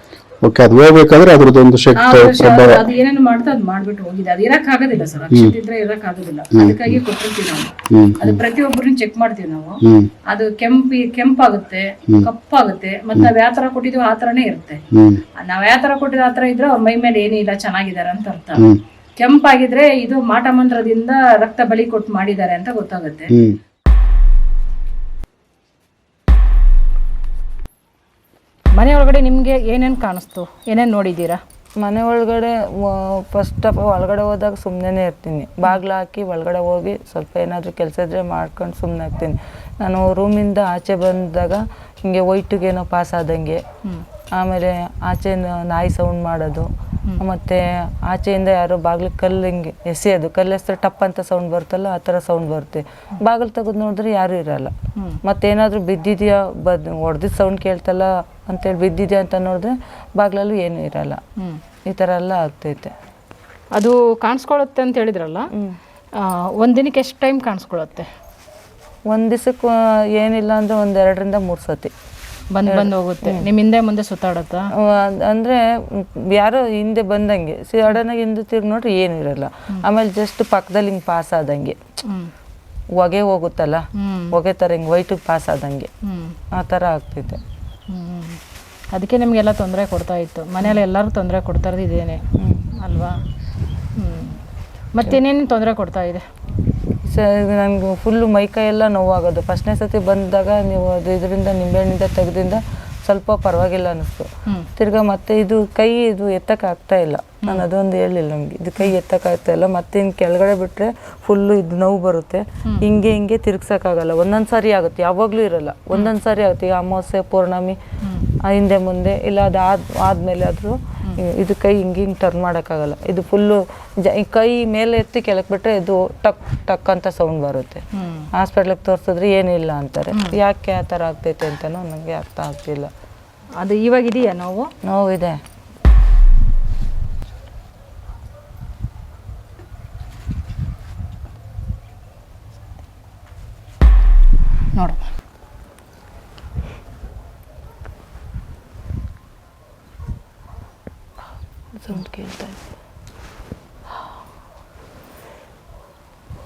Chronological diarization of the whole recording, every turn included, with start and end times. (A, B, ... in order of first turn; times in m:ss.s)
0:00.4-0:02.8 A
0:01.9-0:14.8 B
0:06.5-0:07.0 A
0:07.9-0:08.4 A
0:09.8-0:10.1 A
0:14.9-0:15.2 A
0:15.4-0:18.6 B
0:19.2-0:23.3 B
0:23.3-0:23.6 A
0:28.8-0:31.4 B
0:31.8-0:43.6 C
0:44.4-0:46.7 C
0:47.2-0:54.7 C
0:55.2-1:01.2 C
1:01.9-1:02.9 C
1:03.7-1:05.5 B
1:06.2-1:08.1 B
1:09.1-1:11.9 C
1:12.5-1:14.7 B
1:12.7-1:13.4 C
1:14.9-1:21.8 C
1:23.0-1:23.8 C
1:24.0-1:24.3 B
1:24.3-1:25.9 C
1:26.0-1:26.3 B
1:26.5-1:27.4 C
1:27.9-1:28.4 B
1:28.9-1:32.2 B
1:32.8-1:33.2 B
1:34.0-1:34.4 B
1:34.9-1:36.2 B
1:37.0-1:57.8 C
1:58.5-2:03.6 C
2:04.1-2:07.8 C
2:08.0-2:08.3 B
2:08.4-2:12.9 C
2:13.6-2:14.7 B
2:14.8-2:15.4 C
2:24.7-2:25.0 B
2:31.8-2:32.6 C